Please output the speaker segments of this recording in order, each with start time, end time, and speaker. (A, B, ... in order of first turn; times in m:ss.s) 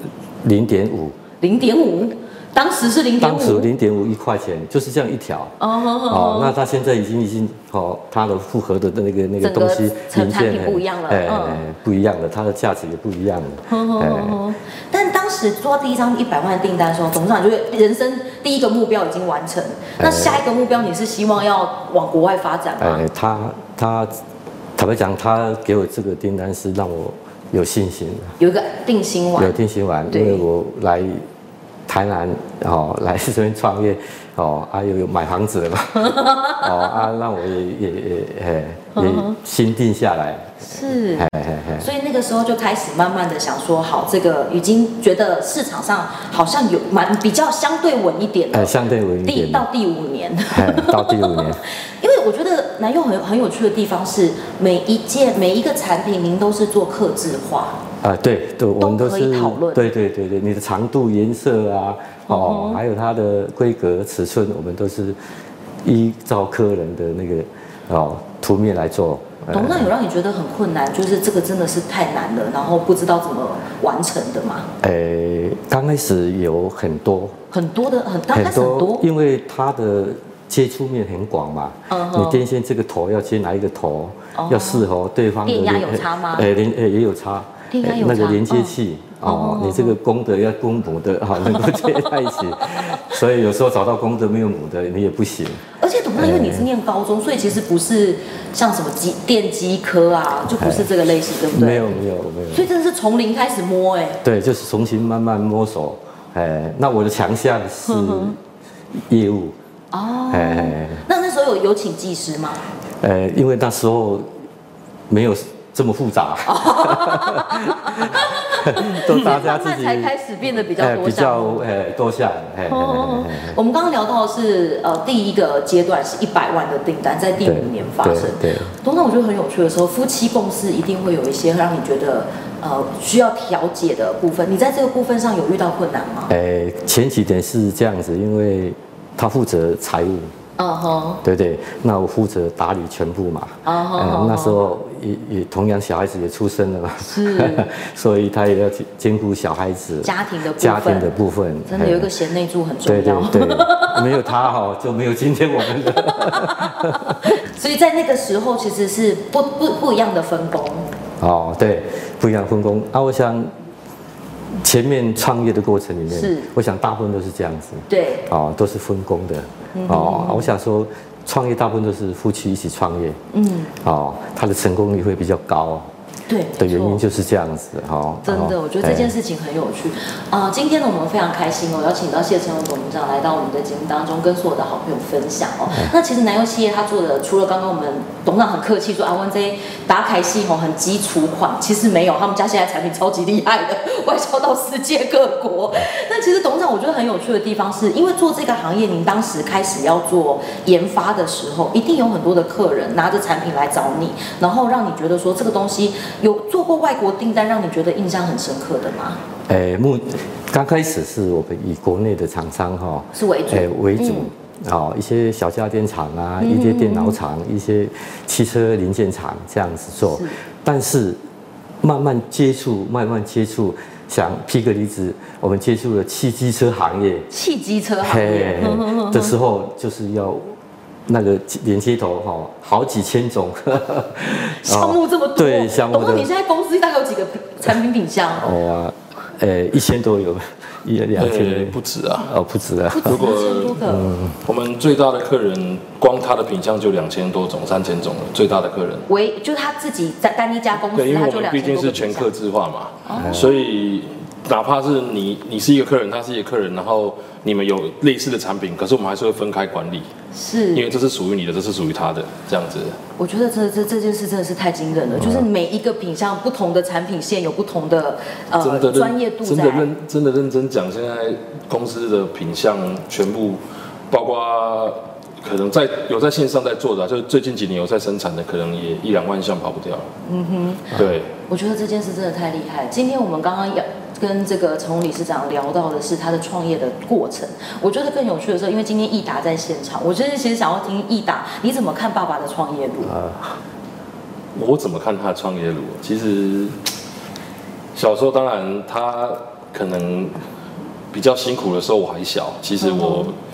0:00.4-0:01.2 A
0:01.4-0:03.7 B
0:03.2-0:05.6 A
0:05.6-0:06.6 B
0:06.1-0:14.4 A
0:09.4-0:11.6 B
0:13.7-0:23.0 B
0:20.0-0:20.4 A
0:22.8-0:24.2 A
0:24.8-0:28.4 A
0:28.4-0:29.6 B
0:29.4-0:31.2 A
0:30.1-0:30.4 B
0:31.9-0:41.9 A
0:36.0-0:37.1 B
0:39.0-0:39.4 B
0:40.6-0:48.7 B
0:48.5-0:49.6 A
0:49.3-0:57.8 B
0:50.5-0:51.6 A
0:58.0-1:05.2 A
0:58.8-0:59.8 B
1:02.3-1:02.8 B
1:05.8-1:09.9 A
1:09.5-1:14.7 B
1:14.8-1:17.4 A
1:17.5-1:19.1 B
1:18.3-1:36.7 A
1:21.9-1:22.4 B
1:24.3-1:24.9 B
1:25.4-1:26.5 B
1:27.7-1:29.9 B
1:31.4-1:33.0 B
1:35.8-1:41.9 B
1:40.6-1:40.9 A
1:41.5-1:42.7 A
1:42.5-1:44.2 B
1:44.2-1:48.4 A
1:47.9-1:48.3 B
1:48.9-1:49.6 A
1:49.9-1:52.6 B
1:50.3-1:51.0 A
1:53.0-1:54.3 A
1:55.1-2:00.1 A
1:56.4-2:01.6 B
2:00.8-2:03.6 A
2:02.7-2:16.3 B
2:07.4-2:08.8 A
2:16.3-2:20.3 A
2:20.6-2:21.2 B
2:21.2-2:32.1 A
2:23.6-2:24.6 B
2:27.0-2:27.7 B
2:30.0-2:31.1 B
2:31.7-2:34.3 B
2:32.8-2:37.4 A
2:35.7-2:40.9 B
2:41.2-2:43.5 A
2:44.6-2:53.2 A
2:46.1-2:46.5 B
2:47.9-2:48.3 B
2:49.7-2:50.5 B
2:53.3-2:53.7 B
2:53.8-2:55.9 A
2:56.3-2:57.0 B
2:56.6-2:59.1 A
2:58.2-3:29.2 B
3:29.5-3:41.2 A
3:33.1-3:34.3 B
3:36.4-3:37.2 B
3:40.0-3:40.4 B
3:41.8-3:47.3 A
3:47.3-3:49.3 B
3:48.0-3:50.6 A
3:51.1-3:56.3 A
3:54.5-3:58.5 B
3:58.4-4:03.2 A
4:01.2-4:02.3 C
4:02.9-4:04.1 B
4:03.1-4:03.8 C
4:03.8-4:04.4 A
4:04.4-4:09.1 C
4:09.1-4:12.3 B
4:10.9-4:20.1 C
4:13.1-4:13.6 B
4:13.2-4:13.5 A
4:20.3-4:20.9 B
4:20.7-4:23.0 C
4:23.2-4:29.9 B
4:25.2-4:25.5 A
4:28.6-4:40.1 C
4:40.3-4:53.2 B
4:40.9-4:41.3 C
4:53.0-4:53.6 A
4:54.6-4:56.8 C
4:57.9-5:00.4 C
5:01.1-5:03.3 C
5:02.8-5:03.3 B